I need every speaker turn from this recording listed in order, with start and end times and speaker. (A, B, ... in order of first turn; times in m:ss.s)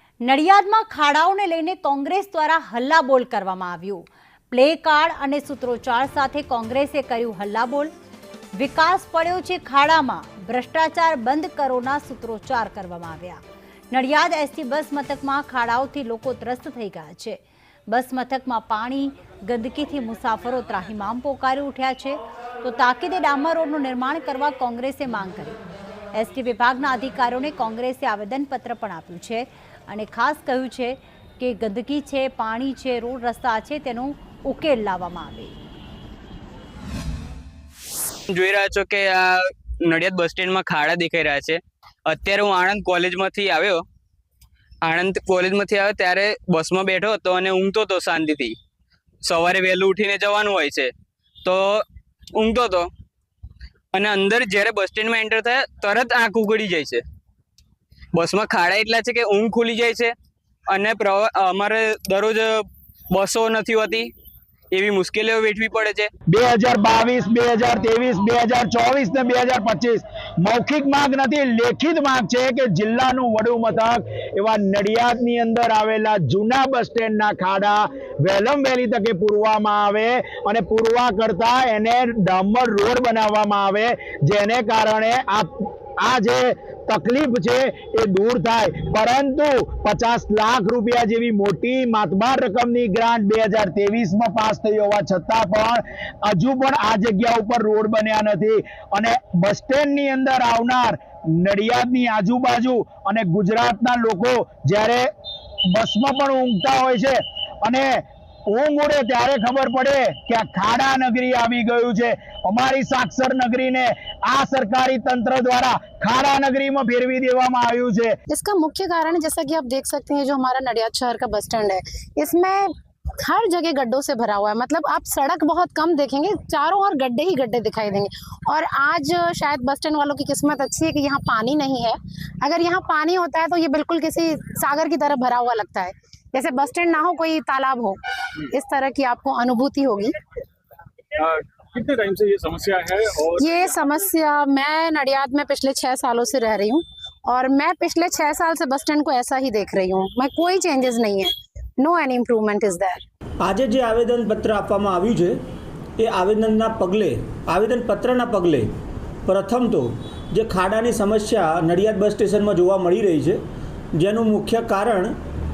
0:00.2-0:07.9 A
0:08.5-0:25.6 A
0:26.1-0:35.5 A
0:38.3-0:43.8 B
0:44.8-0:48.5 B
0:49.2-0:50.9 B
0:51.4-0:51.8 B
0:52.3-0:52.9 B
0:53.9-0:57.0 B
0:58.1-1:00.1 B
1:00.7-1:04.1 B
1:04.7-1:06.1 B
1:06.3-1:45.1 C
1:45.7-1:58.2 C
1:58.3-2:20.1 D
2:21.2-2:24.1 E
2:23.4-2:33.0 D
2:33.4-2:35.4 F
2:36.0-2:38.7 F
2:39.2-2:43.4 F
2:43.9-2:45.1 F